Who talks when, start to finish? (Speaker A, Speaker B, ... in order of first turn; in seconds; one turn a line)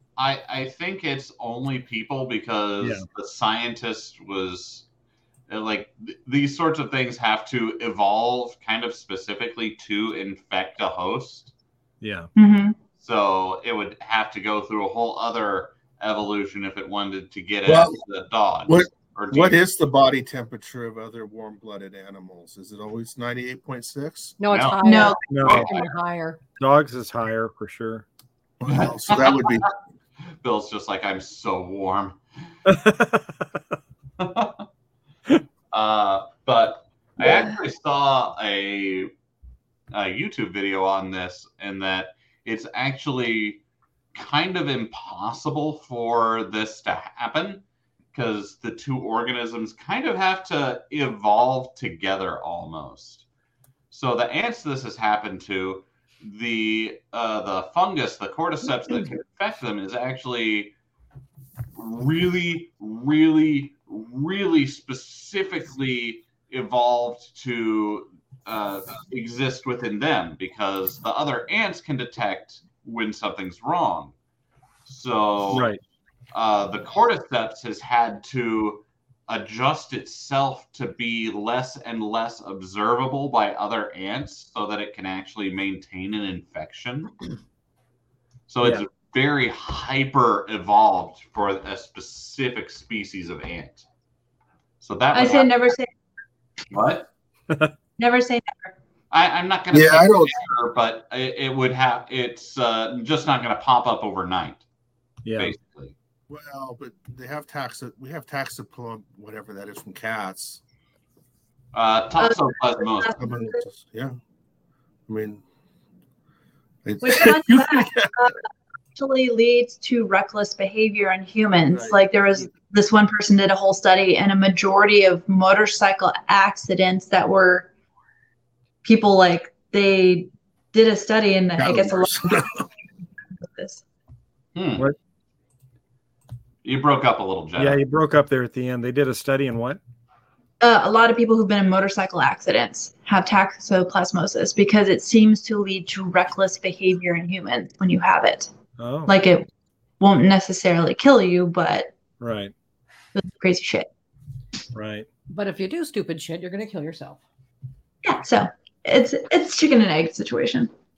Speaker A: 0.2-4.8
Speaker A: 5.5-11.5
Speaker B: 12.0-12.3
Speaker C: 12.4-12.8
Speaker A: 13.0-19.6
Speaker D: 17.7-18.0
Speaker D: 18.7-24.4
Speaker E: 24.4-26.4
Speaker A: 24.5-24.8
Speaker C: 24.8-25.2
Speaker B: 25.3-25.7
Speaker A: 25.4-25.9
Speaker B: 26.6-28.1
Speaker D: 28.6-29.7
Speaker A: 28.7-29.7
Speaker A: 30.4-32.2
Speaker B: 32.7-33.6
Speaker A: 34.2-34.6
Speaker A: 35.7-39.1
Speaker A: 39.9-43.6
Speaker A: 44.1-47.6
Speaker A: 48.1-53.2
Speaker A: 53.9-60.7
Speaker A: 61.8-74.1
Speaker A: 74.8-75.7
Speaker B: 75.5-75.8
Speaker A: 76.3-87.1
Speaker A: 88.5-93.8
Speaker A: 94.8-95.6
Speaker C: 95.1-95.9
Speaker A: 96.7-97.1
Speaker C: 98.0-98.7
Speaker A: 99.1-104.6
Speaker D: 99.7-100.5
Speaker B: 105.2-105.5
Speaker A: 105.4-105.9
Speaker D: 106.3-110.6
Speaker A: 111.7-113.2
Speaker C: 112.2-113.6
Speaker D: 113.2-114.2
Speaker D: 115.1-115.4
Speaker D: 116.8-118.1
Speaker C: 117.0-127.7
Speaker D: 121.7-122.0
Speaker C: 128.8-132.5
Speaker D: 131.6-132.6
Speaker C: 133.4-133.8
Speaker A: 134.6-134.9
Speaker A: 136.6-137.8
Speaker B: 137.6-139.8
Speaker C: 140.6-148.5
Speaker B: 148.8-149.1
Speaker C: 149.1-149.5
Speaker C: 150.0-151.9
Speaker B: 152.2-152.5
Speaker C: 153.1-153.9
Speaker B: 154.7-155.1
Speaker E: 155.3-157.2
Speaker C: 158.0-160.7